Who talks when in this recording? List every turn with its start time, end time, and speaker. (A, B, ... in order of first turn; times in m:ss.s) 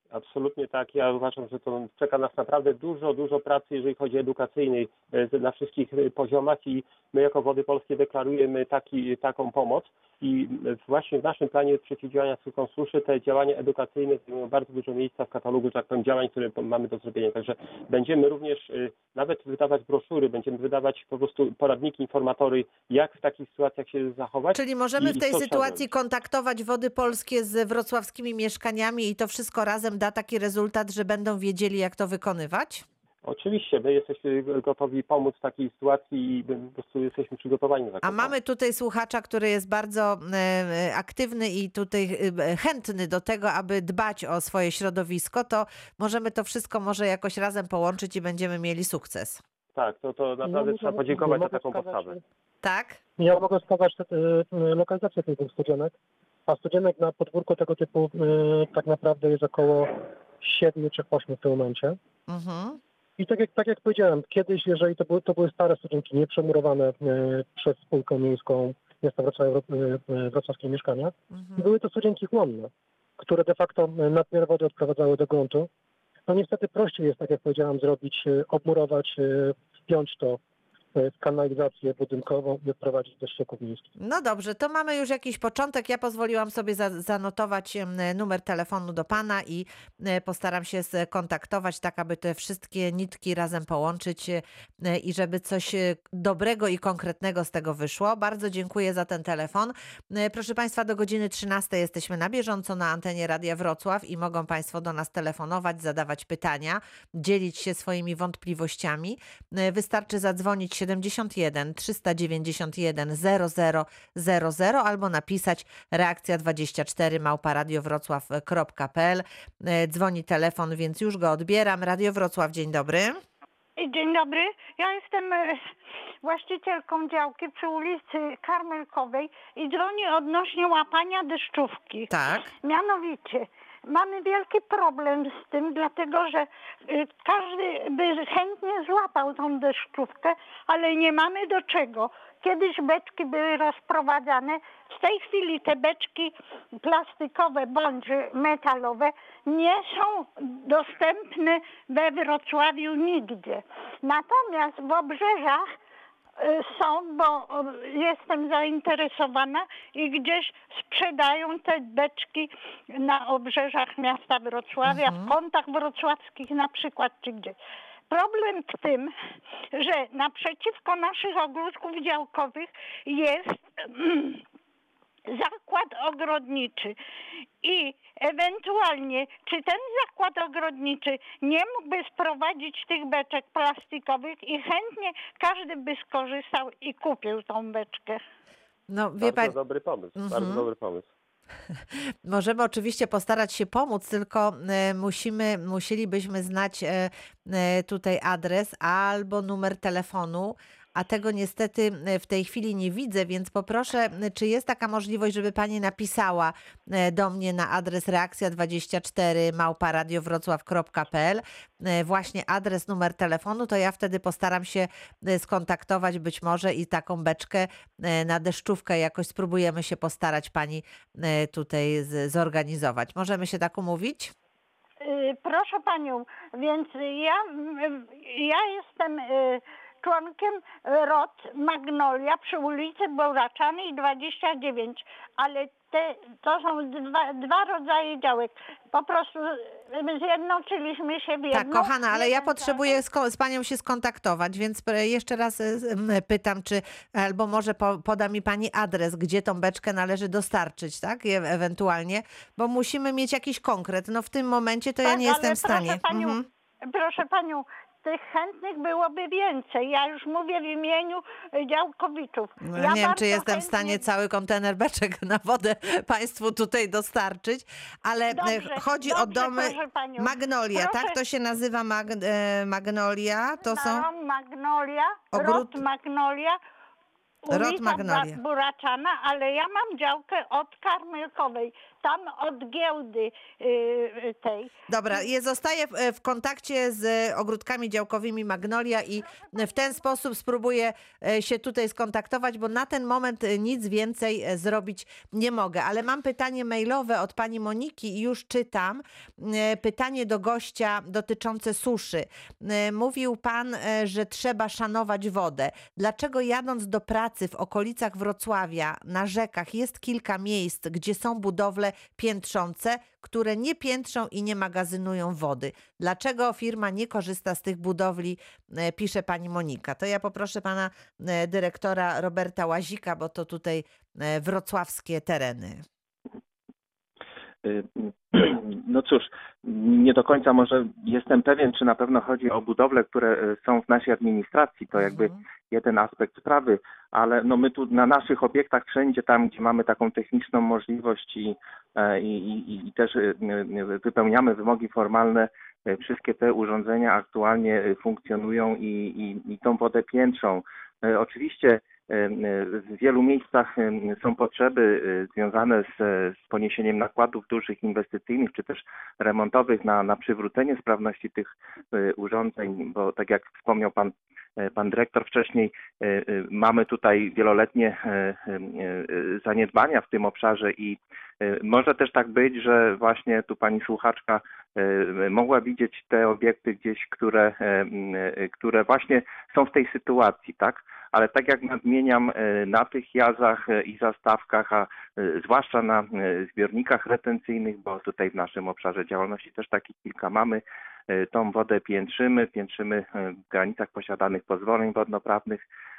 0:00.1-0:25.1 A
0:24.5-0:32.8 B
0:33.2-0:38.3 A
0:38.0-0:49.4 B
0:49.8-0:52.2 A
0:50.4-0:52.2 C
0:52.6-0:53.0 B
0:53.2-0:55.9 C
0:56.5-1:02.0 C
1:02.3-1:02.8 B
1:03.2-1:15.7 C
1:16.3-1:20.4 C
1:21.0-1:23.9 C
1:24.0-2:03.2 B
2:03.8-2:05.6 D
2:06.2-2:35.6 D
2:12.1-2:12.5 B
2:36.4-2:47.6 D
2:44.9-2:45.3 B
2:48.1-2:49.1 D
2:49.7-2:54.4 D
2:55.3-2:57.0 D
2:57.6-3:08.2 D
3:08.9-3:09.6 B
3:09.3-3:11.1 A
3:10.2-3:10.7 B
3:11.9-3:44.3 B
3:45.0-4:03.0 D
4:01.5-4:16.4 B
4:15.0-4:24.0 D
4:22.6-4:34.1 B
4:28.3-4:31.2 D
4:33.6-4:36.6 D
4:35.3-4:35.8 B
4:37.4-4:45.2 D
4:37.5-4:38.3 B
4:44.9-5:25.8 B
4:49.3-4:49.9 D
5:27.6-6:35.6 E
5:35.0-5:35.3 B